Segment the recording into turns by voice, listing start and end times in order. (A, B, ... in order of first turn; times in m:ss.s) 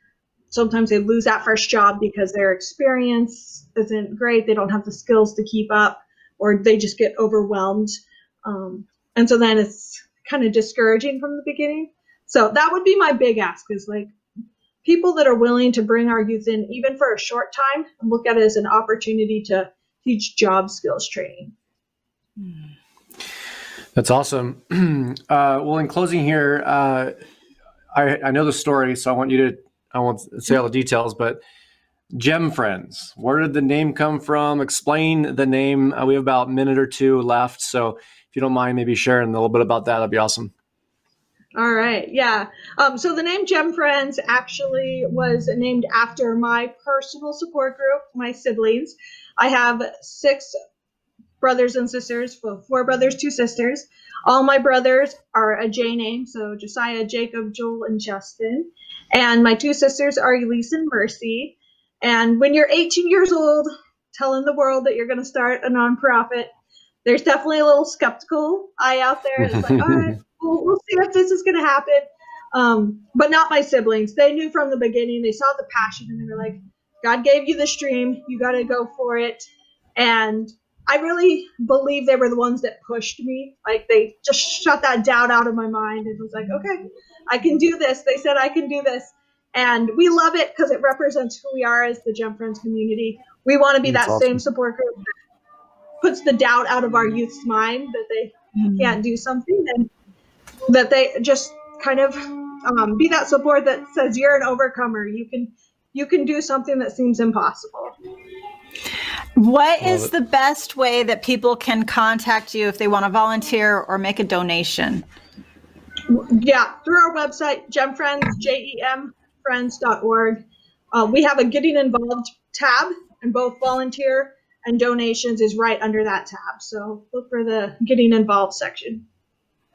0:00.5-0:14.1 A
0:14.8-0:21.5 A
0:24.0-0:27.2 B
0:27.9-0:31.4 B
0:32.1-0:40.5 B
0:41.6-0:50.6 A
0:51.4-1:06.5 A
1:07.0-1:35.1 A
1:09.5-1:10.1 B
1:33.8-1:34.4 B
1:36.0-1:39.9 A
1:38.6-1:39.0 C
1:40.7-1:48.0 A
1:49.4-1:55.0 C
1:49.8-1:50.1 B
1:56.1-2:00.4 A
2:00.9-2:09.0 A